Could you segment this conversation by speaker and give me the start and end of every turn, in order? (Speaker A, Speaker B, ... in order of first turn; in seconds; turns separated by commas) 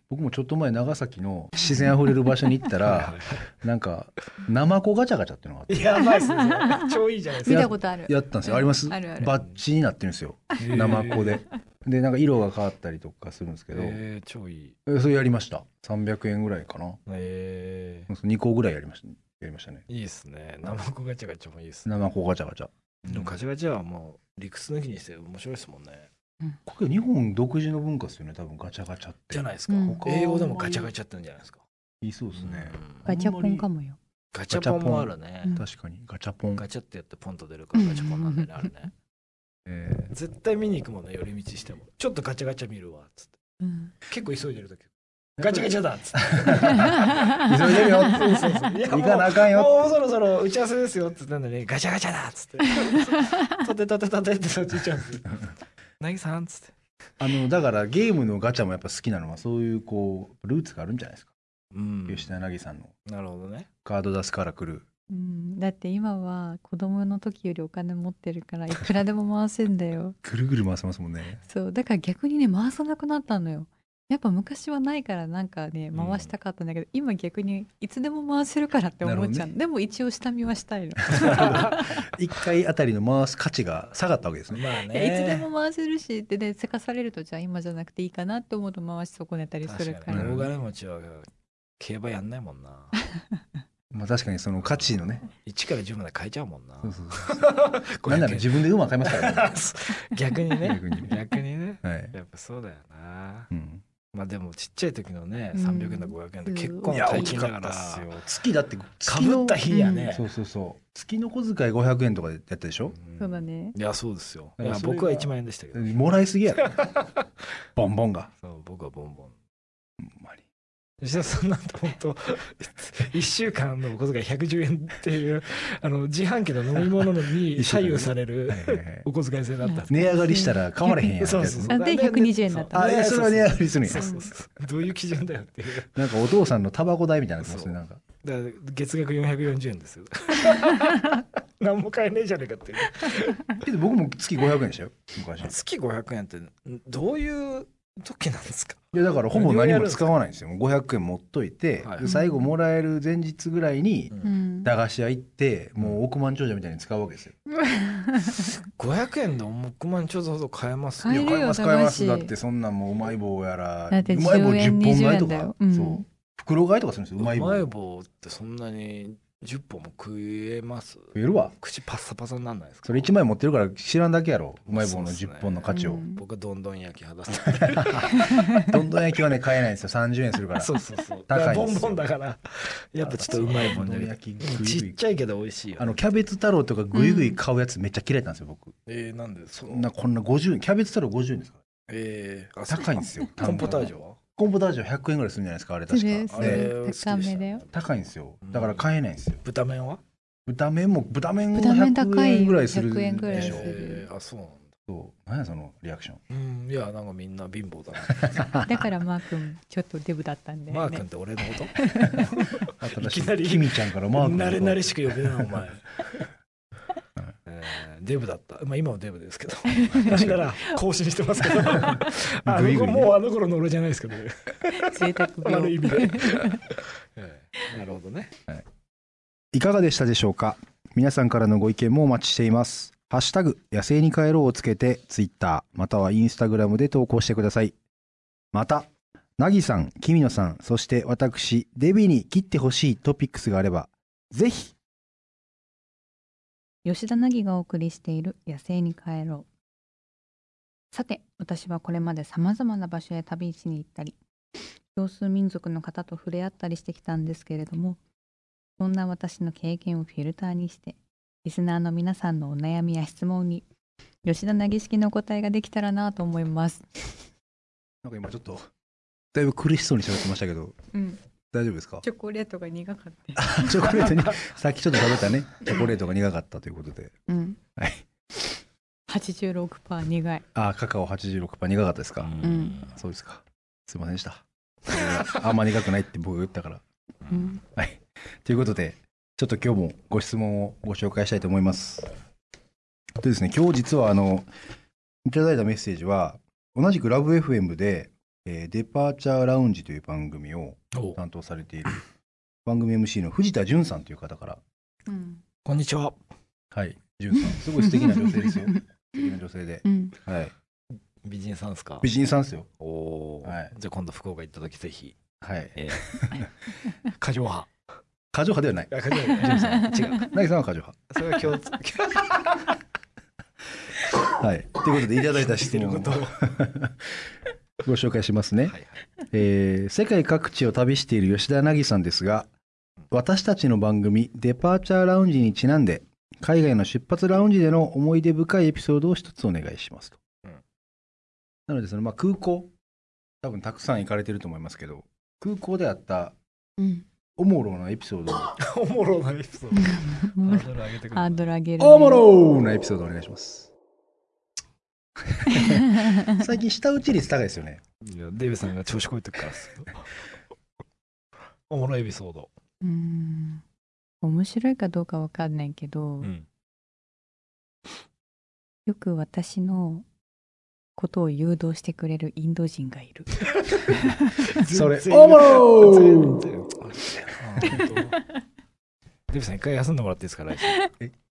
Speaker A: 0.1-5.9, Speaker B: 1.6-2.1, Speaker C: 2.7-3.5, Speaker C: 5.7-7.7, Speaker B: 6.2-9.4, Speaker A: 7.5-14.0, Speaker C: 10.6-11.4, Speaker C: 13.7-14.8, Speaker A: 14.9-17.0, Speaker C: 17.1-18.1, Speaker A: 18.1-19.8, Speaker C: 19.9-21.9, Speaker A: 21.9-23.4, Speaker C: 23.1-26.1, Speaker A: 26.7-30.9, Speaker C: 29.3-31.6, Speaker B: 29.7-30.1, Speaker A: 32.0-33.7, Speaker C: 32.4-33.1, Speaker B: 33.1-34.0, Speaker C: 34.3-35.6, Speaker A: 34.5-36.6, Speaker C: 36.6-38.9, Speaker B: 37.8-38.4, Speaker A: 39.7-40.1, Speaker C: 40.1-43.4, Speaker B: 43.6-43.9, Speaker C: 44.1-55.4, Speaker A: 45.4-50.0, Speaker B: 46.7-48.4, Speaker C: 56.0-56.8, Speaker A: 57.2-61.3, Speaker C: 61.7-62.4, Speaker A: 62.1-62.9, Speaker C: 63.1-63.7, Speaker A: 63.9-64.9, Speaker B: 65.1-70.2, Speaker A: 70.2-71.4, Speaker B: 71.5-82.0, Speaker C: 75.9-76.3, Speaker A: 79.0-79.5, Speaker A: 81.1-84.6, Speaker C: 81.2-81.5, Speaker C: 84.5-85.5, Speaker B: 84.9-90.4, Speaker C: 89.7-93.0, Speaker A: 90.1-90.5, Speaker A: 93.9-95.3, Speaker C: 94.7-103.5, Speaker A: 96.8-97.4, Speaker A: 98.0-99.6, Speaker A: 100.6-101.2, Speaker A: 101.8-102.1, Speaker A: 103.5-103.8, Speaker C: 104.1-108.3, Speaker B: 105.5-107.4, Speaker A: 106.9-113.0, Speaker C: 109.0-110.3, Speaker B: 109.7-110.1, Speaker C: 112.9-116.0, Speaker B: 113.2-113.8, Speaker A: 114.6-116.8, Speaker C: 116.6-117.3, Speaker A: 117.8-118.3, Speaker C: 118.4-119.3, Speaker A: 120.0-120.4, Speaker C: 121.0-130.1, Speaker A: 127.5-129.1, Speaker B: 129.6-132.8, Speaker A: 129.9-131.8, Speaker C: 131.2-136.1, Speaker A: 132.7-134.1, Speaker B: 133.9-134.3, Speaker A: 135.9-138.0, Speaker C: 137.4-143.6, Speaker A: 143.6-145.6, Speaker C: 145.4-150.1, Speaker A: 148.9-157.3, Speaker C: 151.8-152.1, Speaker B: 152.0-152.5, Speaker B: 154.2-154.7, Speaker B: 157.5-158.5, Speaker C: 158.4-161.2, Speaker B: 161.0-162.3, Speaker A: 161.1-167.7, Speaker B: 163.9-166.1, Speaker C: 167.2-173.1, Speaker A: 171.2-171.5, Speaker A: 172.9-176.0, Speaker C: 174.7-178.7, Speaker B: 175.7-176.2, Speaker A: 177.6-180.7, Speaker B: 178.1-178.7, Speaker C: 180.6-186.0, Speaker A: 181.3-182.0, Speaker A: 183.0-185.0, Speaker A: 185.8-188.8, Speaker B: 186.9-187.4, Speaker C: 188.9-189.9, Speaker A: 189.6-191.6, Speaker C: 191.9-194.2, Speaker A: 192.7-196.7, Speaker B: 195.9-197.6, Speaker C: 196.3-197.8, Speaker A: 197.7-199.4, Speaker C: 198.4-198.9, Speaker C: 199.4-200.0, Speaker A: 200.5-203.8, Speaker B: 201.5-204.1, Speaker C: 203.3-204.7, Speaker A: 204.9-206.2, Speaker C: 206.3-208.5, Speaker A: 208.1-208.7, Speaker B: 208.6-211.0, Speaker C: 210.7-216.2, Speaker B: 211.8-212.3, Speaker A: 212.8-215.7, Speaker C: 217.5-228.3, Speaker B: 219.7-220.8, Speaker A: 220.1-220.4, Speaker B: 221.4-222.1, Speaker A: 222.4-223.2, Speaker B: 224.7-226.6, Speaker A: 229.5-237.8, Speaker A: 238.5-244.8, Speaker B: 246.8-249.5, Speaker B: 250.9-254.2, Speaker B: 254.9-258.0, Speaker B: 258.8-263.7, Speaker B: 264.2-267.0, Speaker A: 268.0-268.7, Speaker A: 269.3-270.8, Speaker B: 270.9-271.2, Speaker A: 271.5-272.0, Speaker B: 272.0-273.8, Speaker A: 273.4-277.1, Speaker B: 277.3-277.6, Speaker A: 277.8-278.1, Speaker B: 279.1-280.4, Speaker A: 280.6-286.8, Speaker C: 282.2-283.0, Speaker B: 282.4-282.8, Speaker C: 284.9-285.4, Speaker C: 287.3-287.5, Speaker B: 287.3-287.6, Speaker A: 287.7-292.1, Speaker A: 293.2-294.5, Speaker A: 295.2-302.0, Speaker C: 300.9-301.2, Speaker A: 302.6-304.6, Speaker B: 305.1-305.4, Speaker C: 305.6-306.2, Speaker A: 306.7-310.5, Speaker B: 307.5-308.8, Speaker B: 309.8-310.2, Speaker C: 311.2-312.1, Speaker A: 312.0-312.7, Speaker C: 312.8-315.2, Speaker A: 313.4-313.7, Speaker A: 315.4-316.5, Speaker C: 315.8-316.5, Speaker C: 317.1-317.7, Speaker A: 318.3-321.6, Speaker C: 318.9-320.4, Speaker C: 321.1-322.8, Speaker A: 324.2-327.3, Speaker C: 325.1-326.4, Speaker A: 327.8-328.8, Speaker A: 329.3-332.5, Speaker A: 333.1-340.2, Speaker A: 341.7-342.7, Speaker A: 343.4-346.4, Speaker B: 346.8-347.1, Speaker A: 347.4-348.6, Speaker C: 348.6-351.6, Speaker B: 349.7-352.2, Speaker A: 351.8-353.7, Speaker A: 355.2-357.8, Speaker B: 355.5-356.4, Speaker C: 358.0-360.1, Speaker C: 361.7-362.5, Speaker B: 362.8-363.6, Speaker B: 364.2-366.3, Speaker C: 366.2-366.5, Speaker B: 368.9-370.1, Speaker B: 371.0-373.3, Speaker C: 373.7-378.2, Speaker B: 373.9-374.6, Speaker A: 374.6-376.5, Speaker A: 377.3-377.8, Speaker C: 379.3-380.9